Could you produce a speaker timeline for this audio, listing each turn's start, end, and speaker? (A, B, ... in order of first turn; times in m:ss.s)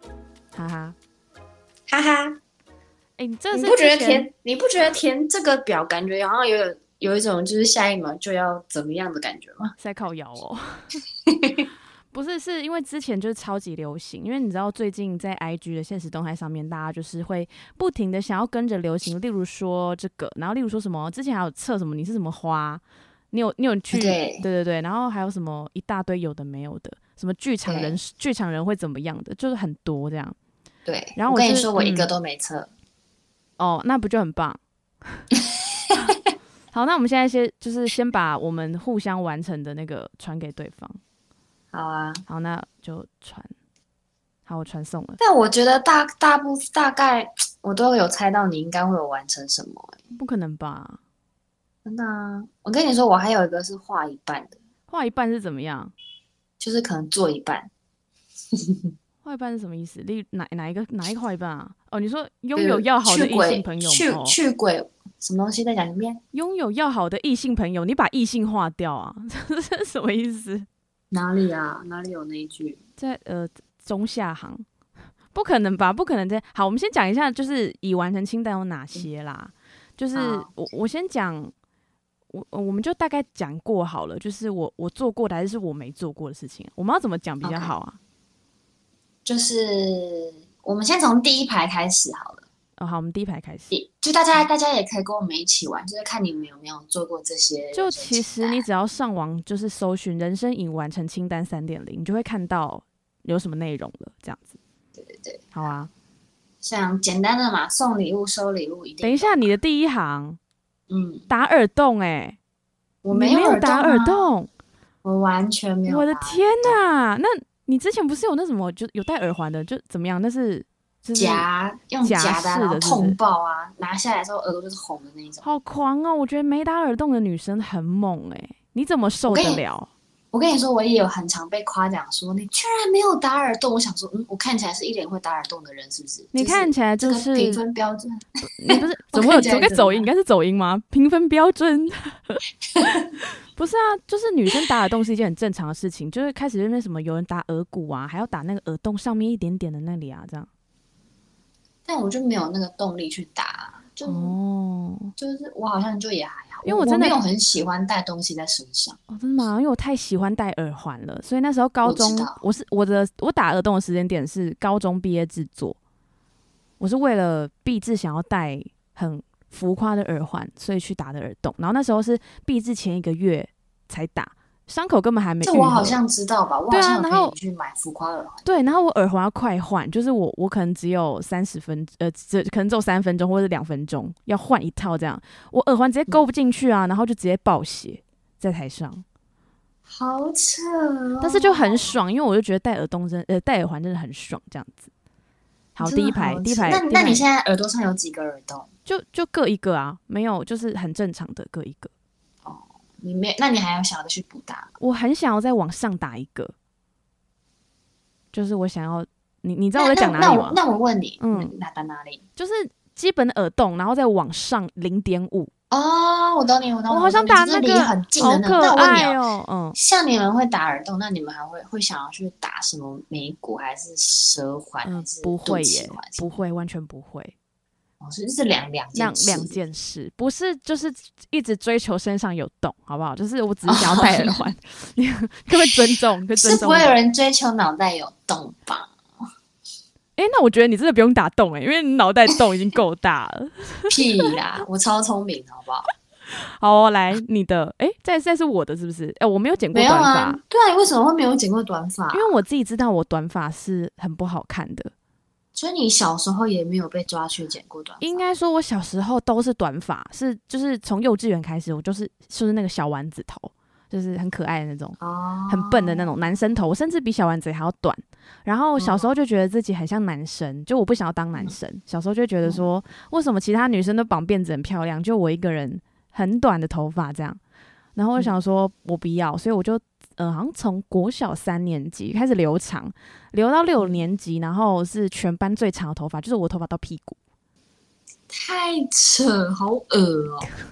0:00.5-0:01.0 A
0:01.9-0:02.4 B
0:03.2-0:04.3 A
0:03.5-0:09.7 B
0:09.8-0:11.0 A
0:11.3-0:11.7 B
0:12.1-0:30.4 A
0:23.9-0:24.4 B
0:27.6-0:28.0 B
0:30.8-0:32.7 B
0:31.2-0:32.1 A
0:33.6-0:35.2 A
0:36.7-0:41.0 A
0:41.7-0:42.2 B
0:42.3-0:43.5 A
0:44.4-0:45.2 A
0:45.2-0:50.0 B
0:50.2-0:51.0 A
0:51.8-0:54.6 B
0:54.9-0:55.9 A
0:56.6-0:57.7 B
0:58.5-0:58.8 B
0:59.2-1:04.4 A
1:02.6-1:06.2 B
1:06.3-1:10.7 A
1:11.1-1:12.8 B
1:13.0-1:14.6 A
1:15.3-1:21.5 A
1:20.1-1:20.5 B
1:22.3-1:28.0 A
1:27.4-1:27.7 B
1:29.2-1:32.4 B
1:32.8-1:33.7 A
1:33.7-1:38.6 B
1:37.7-1:44.6 A
1:44.9-1:45.5 B
1:45.5-1:45.9 A
1:46.6-1:49.5 B
1:49.0-1:50.4 A
1:50.9-1:51.3 B
1:51.3-1:52.4 A
1:53.0-1:54.2 B
1:53.1-1:54.5 A
1:55.0-1:56.8 B
1:55.9-2:01.4 A
2:01.1-2:05.4 B
2:02.0-2:03.2 A
2:05.4-2:09.9 A
2:09.3-2:09.6 B
2:10.3-2:20.1 B
2:16.3-2:17.6 A
2:18.5-2:22.4 A
2:22.8-2:23.1 B
2:23.5-2:30.5 A
2:31.8-2:34.3 B
2:34.0-2:35.1 A
2:35.2-2:39.0 B
2:36.6-2:37.2 A
2:39.1-2:45.8 A
2:41.8-2:42.4 B
2:46.8-2:56.0 A
2:55.4-2:58.6 B
2:56.7-2:57.3 A
2:58.4-3:09.0 A
3:09.9-3:11.9 B
3:11.2-3:14.9 A
3:15.7-3:17.2 A
3:15.8-3:18.7 B
3:18.9-3:21.9 A
3:22.4-3:24.7 B
3:24.8-3:26.5 A
3:28.3-3:30.6 A
3:29.7-3:32.2 B
3:31.2-3:31.5 A
3:32.4-3:35.5 A
3:35.7-3:39.2 B
3:36.9-3:39.8 A
3:39.8-3:46.3 B
3:44.8-3:47.3 A
3:48.0-3:49.6 B
3:48.9-3:56.9 A
3:53.7-3:54.4 B
3:56.4-3:58.9 B
4:00.2-4:04.3 A
4:03.9-4:05.9 B
4:06.6-4:10.4 A
4:09.7-4:12.3 B
4:12.1-4:14.9 A
4:15.5-4:18.2 B
4:18.0-4:37.4 A
4:25.0-4:26.4 B
4:28.8-4:29.1 B
4:38.0-4:47.2 A
4:43.8-4:44.0 B
4:48.3-4:50.5 B